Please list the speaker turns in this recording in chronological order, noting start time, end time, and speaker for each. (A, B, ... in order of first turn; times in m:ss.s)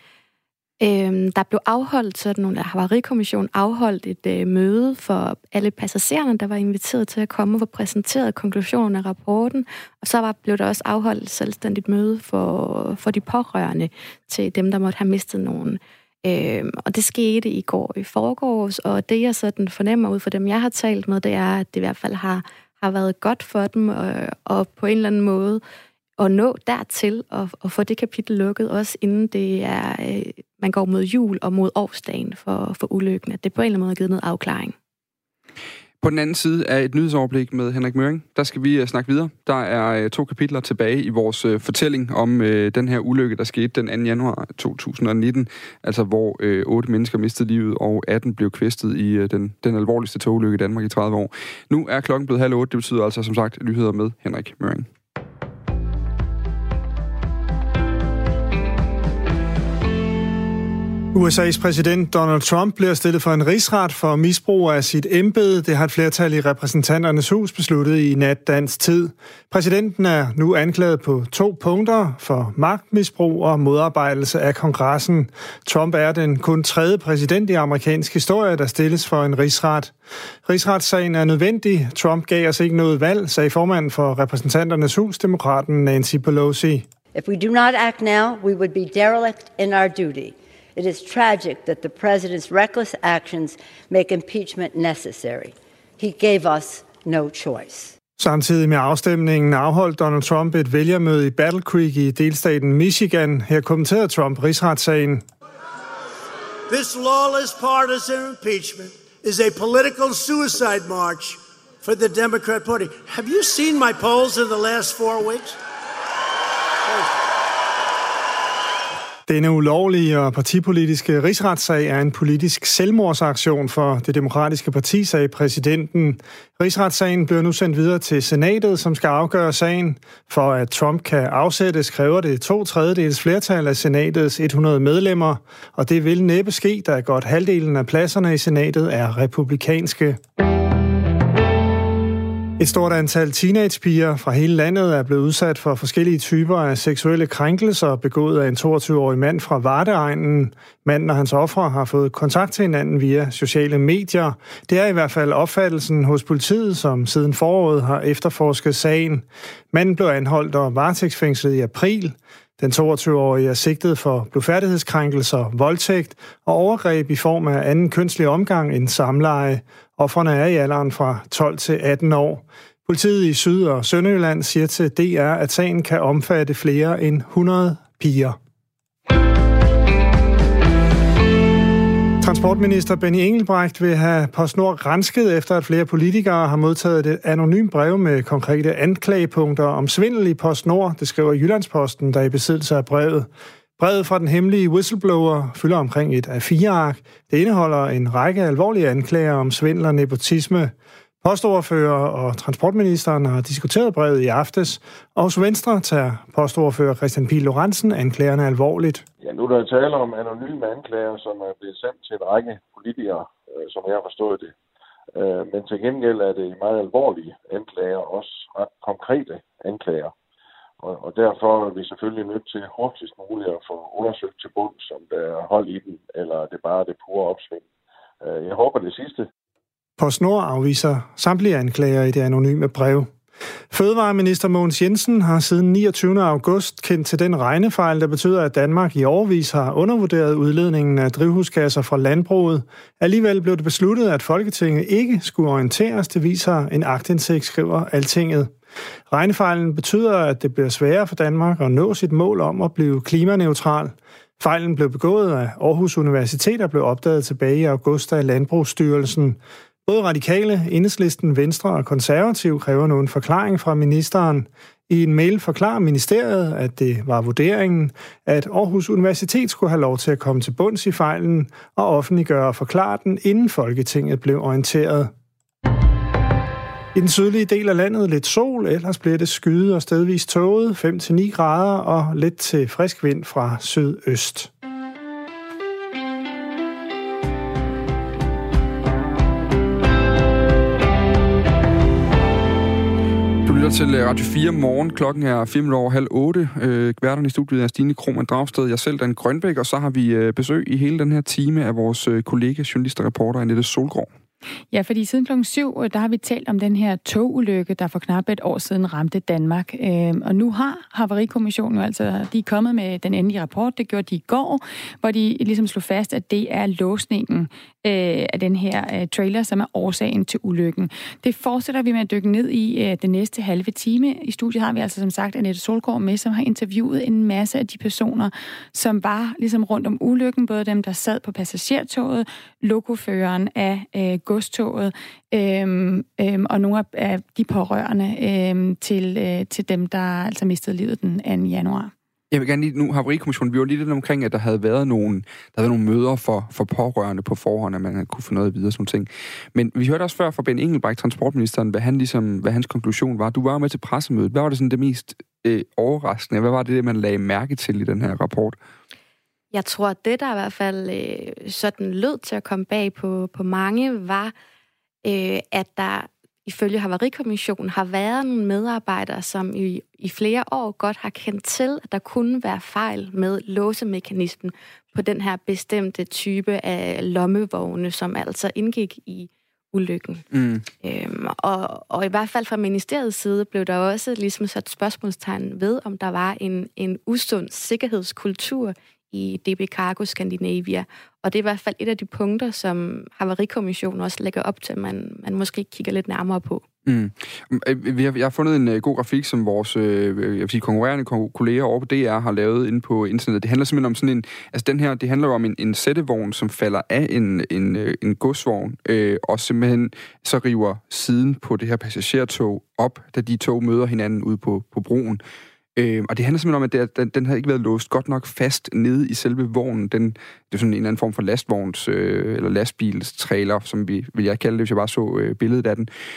0:00.8-0:25.6 A
0:26.2-0:34.7 A
0:36.0-0:54.9 B
1:01.1-1:19.9 C
1:20.4-1:26.9 C
1:27.1-1:37.9 D
1:38.2-1:45.2 C
1:46.7-1:55.6 E
1:59.3-2:20.2 C
2:22.6-2:58.4 C
3:02.2-3:29.0 C
3:29.2-3:34.5 F
3:35.2-3:40.1 F
3:40.8-3:47.6 F
3:48.2-3:49.2 F
3:50.0-3:53.1 C
3:53.7-4:08.5 C
4:09.1-4:35.1 C
4:37.0-4:44.5 C
4:53.4-5:04.1 B
5:04.7-5:41.9 G
5:42.3-5:58.6 B
5:59.5-6:04.3 A
6:05.0-6:20.2 A
6:20.3-6:20.6 B
6:20.8-6:36.6 A
6:36.9-6:55.2 B
6:55.8-7:05.9 B